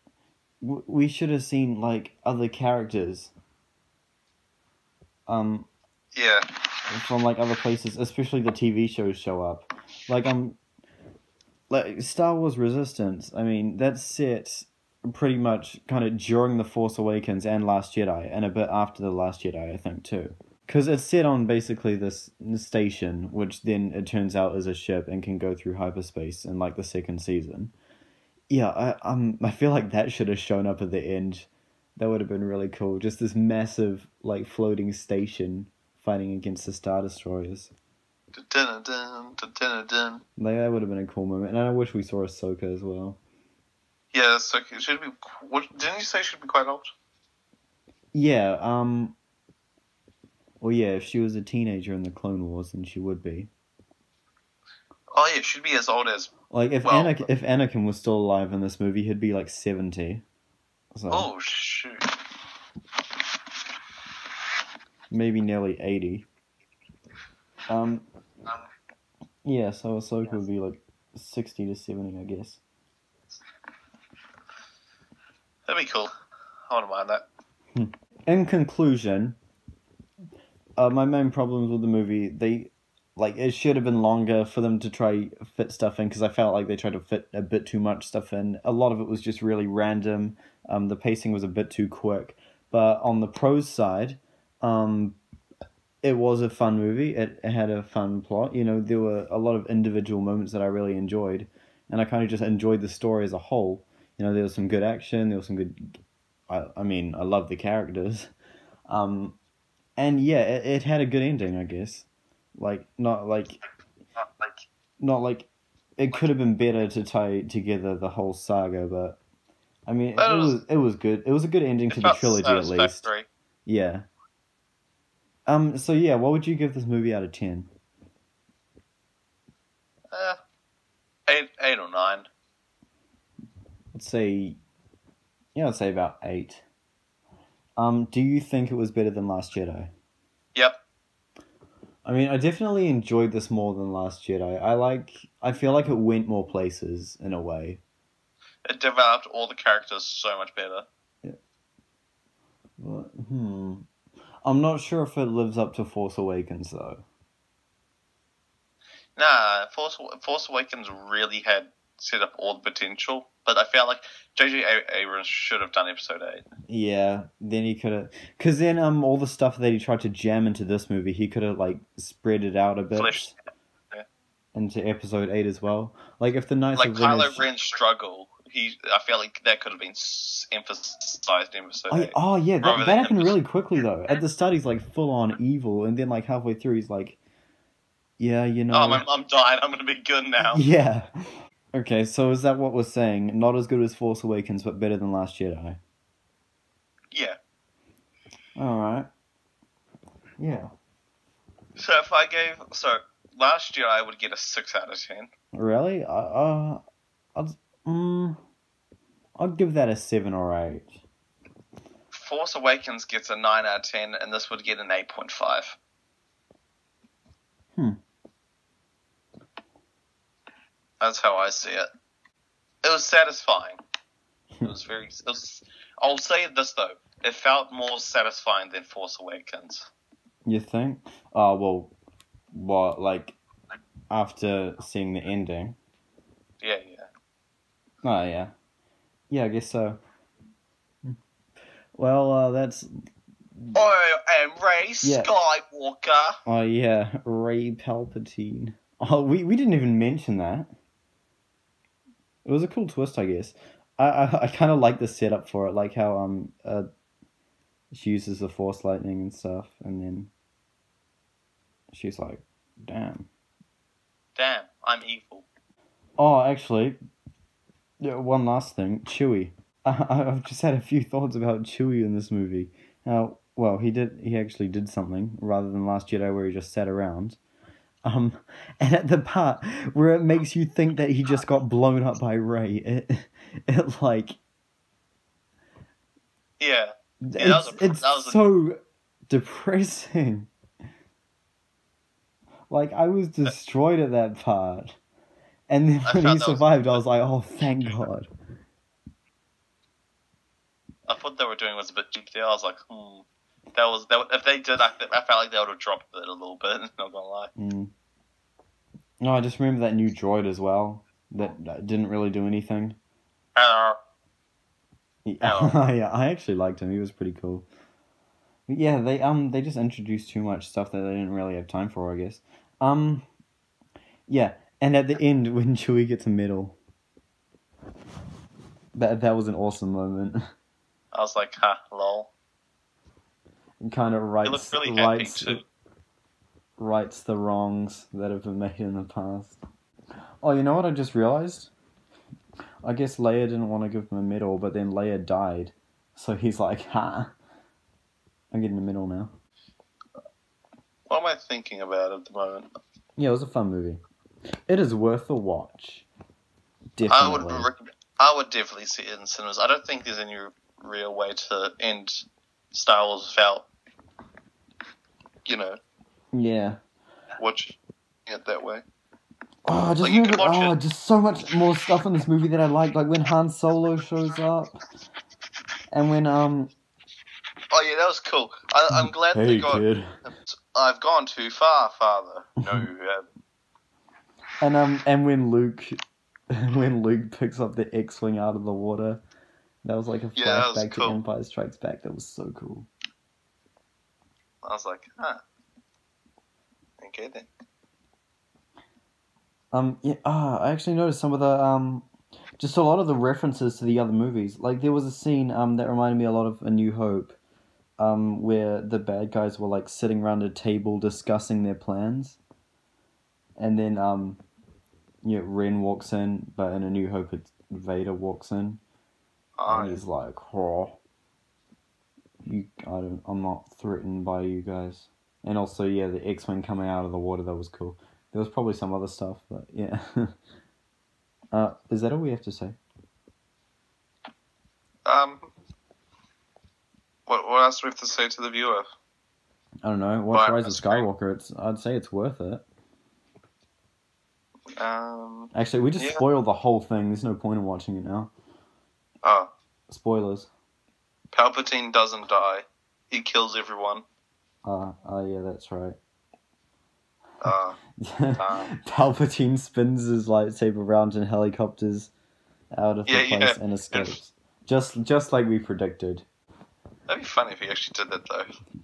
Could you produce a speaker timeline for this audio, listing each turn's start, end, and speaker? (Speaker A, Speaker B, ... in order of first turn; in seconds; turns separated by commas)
Speaker A: 0.6-3.3, Speaker A: 5.3-5.7, Speaker B: 6.1-6.5, Speaker A: 6.9-10.6, Speaker A: 11.7-27.7, Speaker A: 28.5-37.7, Speaker B: 38.3-40.2, Speaker A: 40.4-43.2, Speaker B: 44.1-46.9, Speaker A: 48.1-49.1, Speaker A: 50.6-53.5, Speaker B: 55.1-57.3, Speaker A: 56.5-60.2, Speaker A: 60.9-61.3, Speaker B: 61.1-62.1, Speaker A: 65.1-66.2, Speaker A: 67.7-68.0, Speaker A: 69.4-72.6, Speaker B: 75.7-76.1, Speaker B: 76.7-77.2, Speaker A: 77.8-79.3, Speaker A: 80.8-95.2, Speaker A: 96.0-105.9, Speaker A: 106.5-108.3, Speaker A: 108.9-109.3, Speaker A: 110.0-113.6, Speaker A: 115.0-115.5, Speaker A: 116.0-119.2, Speaker A: 119.9-123.1, Speaker B: 120.2-120.6, Speaker B: 121.9-123.2, Speaker A: 123.7-124.0, Speaker A: 125.5-127.7, Speaker B: 130.1-130.4, Speaker B: 131.3-132.2, Speaker A: 133.9-134.6, Speaker A: 135.5-136.6, Speaker A: 137.8-139.9, Speaker A: 142.0-147.8, Speaker B: 148.7-150.8, Speaker A: 152.8-153.8, Speaker A: 154.4-157.0, Speaker B: 159.2-166.4, Speaker A: 166.7-173.3, Speaker B: 172.9-173.3, Speaker A: 174.5-177.4, Speaker B: 176.7-183.4, Speaker A: 181.9-187.2, Speaker A: 188.2-189.0, Speaker B: 188.7-190.7, Speaker A: 190.5-191.1, Speaker A: 191.7-195.8, Speaker B: 197.1-197.4, Speaker A: 198.6-199.1, Speaker A: 200.4-200.7, Speaker B: 201.8-205.3, Speaker A: 205.5-206.8, Speaker A: 207.3-208.4, Speaker A: 209.4-210.9, Speaker B: 212.1-215.8, Speaker B: 221.0-221.9, Speaker B: 222.8-223.8, Speaker B: 224.6-229.9, Speaker A: 230.4-231.9, Speaker A: 232.5-233.3, Speaker A: 234.1-235.8, Speaker B: 236.6-237.1, Speaker A: 238.0-238.5, Speaker A: 239.3-240.0, Speaker A: 241.9-242.9, Speaker B: 243.7-246.4, Speaker A: 245.0-245.3, Speaker A: 246.4-250.7, Speaker A: 252.4-256.9, Speaker A: 257.9-260.3, Speaker A: 261.9-263.3, Speaker B: 264.4-265.4, Speaker A: 266.2-267.0, Speaker A: 268.0-277.4, Speaker A: 278.0-284.4, Speaker B: 286.6-288.4, Speaker A: 287.2-288.8, Speaker A: 289.3-290.5, Speaker A: 292.7-294.9, Speaker A: 295.7-298.3, Speaker B: 296.0-297.0, Speaker B: 301.1-307.5, Speaker A: 307.6-307.9, Speaker A: 309.2-312.9, Speaker B: 313.6-314.0, Speaker A: 315.2-317.6, Speaker B: 315.4-315.9, Speaker A: 318.7-323.2, Speaker A: 324.3-326.7, Speaker A: 328.9-330.4, Speaker B: 331.1-332.3, Speaker A: 333.8-335.6, Speaker B: 334.4-335.6, Speaker A: 336.8-339.6, Speaker A: 340.4-341.7, Speaker A: 342.8-347.3, Speaker A: 348.5-349.3, Speaker B: 351.1-352.7, Speaker A: 353.2-354.0, Speaker A: 354.7-356.1, Speaker A: 357.0-357.7, Speaker B: 357.0-363.7, Speaker B: 365.4-365.8, Speaker A: 366.3-366.8, Speaker B: 367.4-367.7, Speaker B: 368.3-368.8, Speaker A: 369.6-374.8, Speaker B: 370.0-370.7, Speaker A: 375.9-376.7, Speaker B: 377.7-379.8, Speaker A: 378.9-380.1, Speaker B: 380.4-383.2, Speaker A: 384.6-386.0, Speaker A: 386.5-389.2, Speaker A: 389.8-392.9, Speaker B: 390.4-391.2, Speaker B: 394.6-395.4, Speaker B: 397.0-397.5, Speaker A: 399.7-402.0, Speaker A: 402.6-407.3, Speaker A: 408.0-412.4, Speaker A: 413.6-414.4, Speaker A: 415.2-418.8, Speaker B: 419.6-420.0, Speaker A: 419.7-421.0, Speaker A: 422.4-430.3, Speaker A: 431.5-432.8, Speaker B: 435.0-435.5, Speaker B: 437.3-438.9, Speaker A: 439.8-442.6, Speaker B: 440.3-441.1, Speaker B: 444.8-446.2, Speaker A: 445.5-448.3, Speaker B: 449.2-449.5, Speaker A: 449.9-450.5, Speaker B: 451.3-454.0, Speaker A: 454.6-456.0, Speaker B: 457.4-457.8, Speaker A: 458.0-462.1, Speaker B: 458.4-458.7, Speaker A: 462.7-466.2, Speaker B: 463.1-464.2, Speaker B: 467.1-468.5